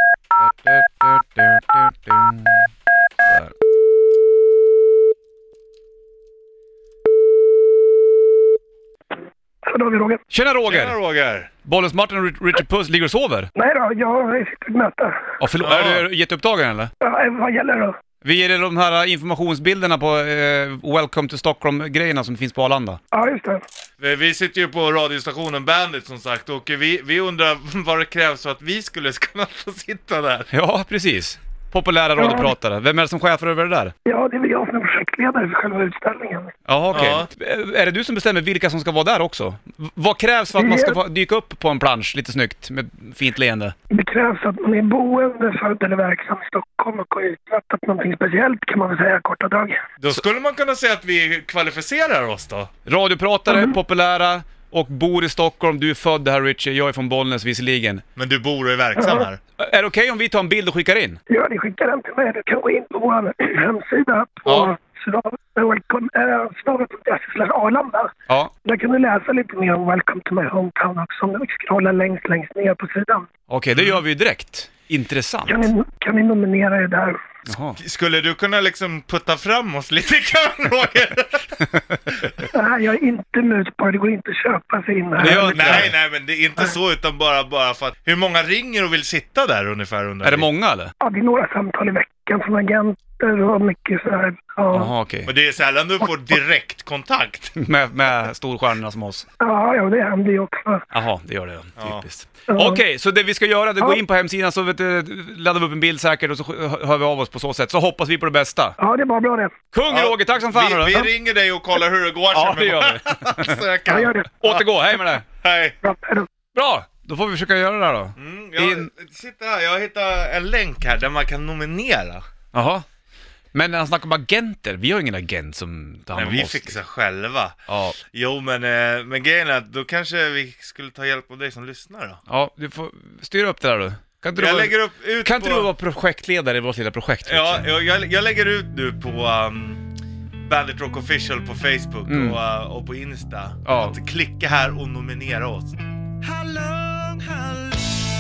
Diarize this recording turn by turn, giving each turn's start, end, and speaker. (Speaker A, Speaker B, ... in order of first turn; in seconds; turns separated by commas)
Speaker A: 0.4-2.7, Speaker A: 3.2-3.5, Speaker B: 9.6-10.2, Speaker A: 10.3-11.0, Speaker C: 10.7-11.5, Speaker A: 11.6-13.5, Speaker B: 13.6-15.3, Speaker A: 15.4-16.9, Speaker C: 15.6-16.1, Speaker B: 17.0-18.0, Speaker A: 18.2-23.0, Speaker B: 23.1-23.6, Speaker C: 24.0-30.5, Speaker A: 30.5-34.0, Speaker B: 32.2-32.5, Speaker B: 34.1-36.5, Speaker A: 36.7-43.8, Speaker C: 36.9-37.3, Speaker B: 40.6-41.0, Speaker B: 43.9-49.8, Speaker C: 50.0-52.7, Speaker A: 52.9-58.0, Speaker B: 53.5-53.8, Speaker C: 58.2-59.4, Speaker B: 59.0-59.3, Speaker A: 59.6-61.2, Speaker B: 61.3-68.1, Speaker A: 64.5-64.7, Speaker B: 68.7-73.3, Speaker A: 73.5-75.7, Speaker C: 73.8-74.0, Speaker B: 75.5-77.2, Speaker A: 77.5-77.8, Speaker C: 77.8-82.5, Speaker A: 81.6-82.1, Speaker B: 82.5-85.8, Speaker A: 85.2-85.9, Speaker C: 85.2-90.5, Speaker A: 90.2-90.9, Speaker B: 91.0-94.9, Speaker A: 94.7-95.3, Speaker C: 95.3-97.6, Speaker A: 97.5-99.3, Speaker B: 99.4-100.9, Speaker A: 100.9-108.8, Speaker C: 101.8-102.0, Speaker B: 102.5-102.8, Speaker B: 108.8-109.5, Speaker A: 109.7-111.1, Speaker C: 109.9-114.7, Speaker A: 112.3-113.6, Speaker B: 113.9-114.3, Speaker A: 114.4-115.2, Speaker C: 115.3-115.8, Speaker B: 115.8-116.3, Speaker A: 116.5-118.9, Speaker C: 118.2-122.2, Speaker A: 122.5-122.9, Speaker A: 123.5-126.8, Speaker C: 126.2-132.2, Speaker A: 127.7-128.0, Speaker A: 132.3-137.7, Speaker C: 134.4-135.7, Speaker C: 137.2-148.1, Speaker A: 142.1-142.4, Speaker A: 143.7-144.0